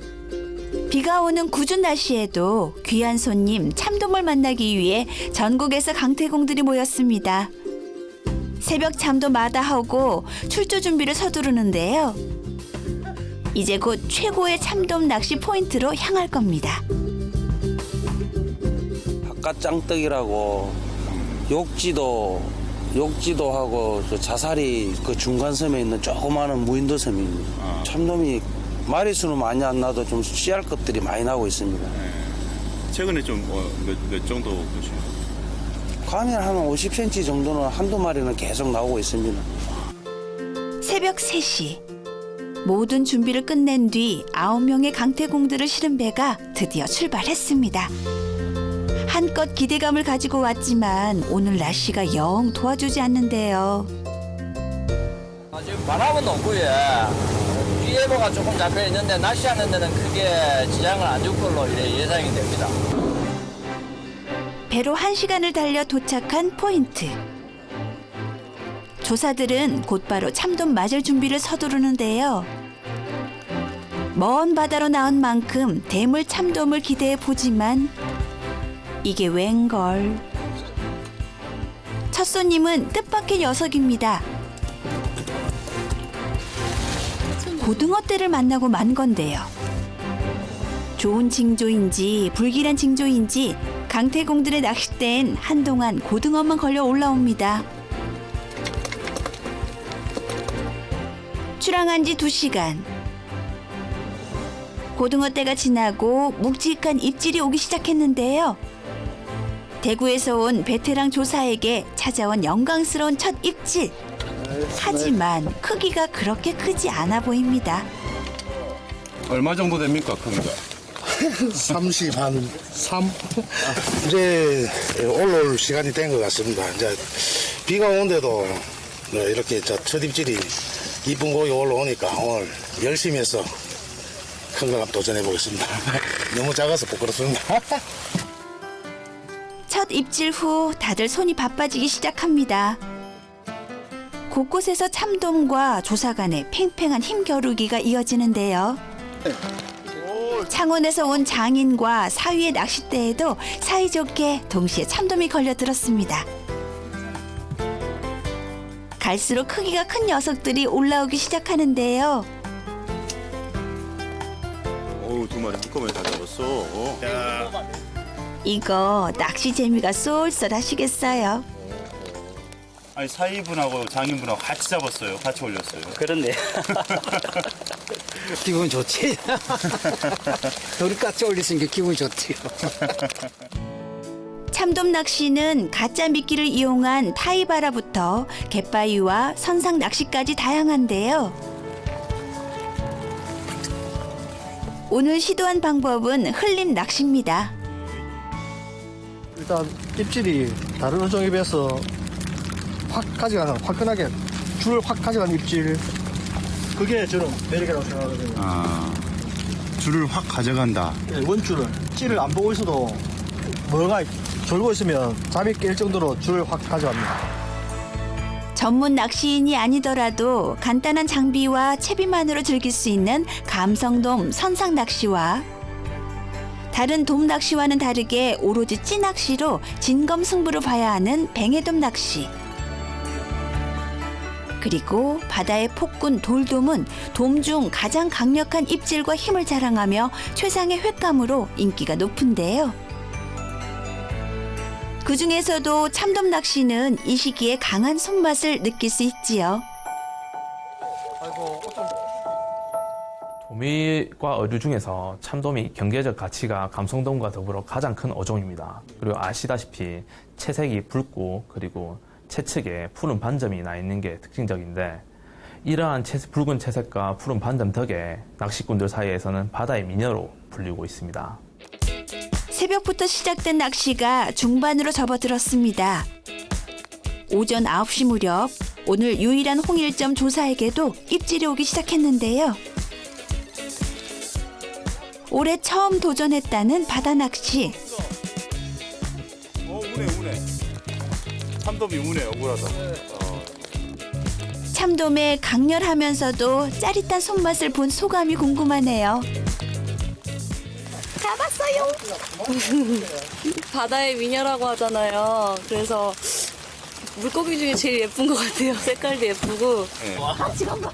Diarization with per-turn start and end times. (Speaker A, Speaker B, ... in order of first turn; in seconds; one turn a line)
Speaker A: 0.9-7.5
Speaker A: 8.6-12.2
Speaker A: 13.5-16.8
Speaker B: 19.2-20.9
Speaker C: 21.1-21.4
Speaker B: 21.5-32.0
Speaker C: 27.6-27.9
Speaker C: 31.9-32.4
Speaker C: 32.9-35.2
Speaker B: 36.0-39.5
Speaker A: 40.8-41.8
Speaker A: 42.6-47.9
Speaker A: 49.1-53.9
Speaker D: 55.5-62.7
Speaker A: 64.7-67.2
Speaker A: 69.0-72.5
Speaker A: 74.1-77.9
Speaker A: 79.0-80.2
Speaker A: 82.1-84.2
Speaker A: 87.5-89.5
Speaker A: 91.0-97.7
Speaker A: 101.6-102.9
Speaker A: 105.0-108.6
Speaker A: 109.8-114.0
Speaker A: 114.7-117.8
Speaker C: 119.3-120.6
Speaker E: 121.7-133.5
Speaker E: 134.5-137.8
Speaker A: 139.7-142.8
Speaker A: 144.3-148.8
Speaker A: 150.3-156.3
Speaker A: 159.0-162.3
Speaker C: 165.0-167.4
Speaker A: 168.4-171.4
Speaker C: 172.9-176.1
Speaker F: 175.9-177.3
Speaker F: 178.3-182.8
Speaker A: 184.5-191.4
Speaker A: 194.9-197.5
Speaker G: 199.3-201.9
Speaker G: 202.9-205.8
Speaker G: 206.8-208.4
Speaker C: 208.4-209.1
Speaker C: 209.8-211.0
Speaker G: 211.1-213.0
Speaker G: 213.7-217.2
Speaker A: 218.5-225.4
Speaker A: 226.7-232.3
Speaker A: 234.6-242.8
Speaker A: 245.0-249.6
Speaker H: 253.4-265.1
Speaker H: 265.6-271.4
Speaker A: 272.5-276.1
Speaker A: 277.3-282.6
Speaker A: 285.3-287.8
Speaker C: 289.6-290.4
Speaker C: 291.6-293.6
Speaker A: 294.7-299.3
Speaker I: 301.3-301.8
Speaker I: 302.6-306.5
Speaker I: 307.1-309.9
Speaker C: 310.0-310.3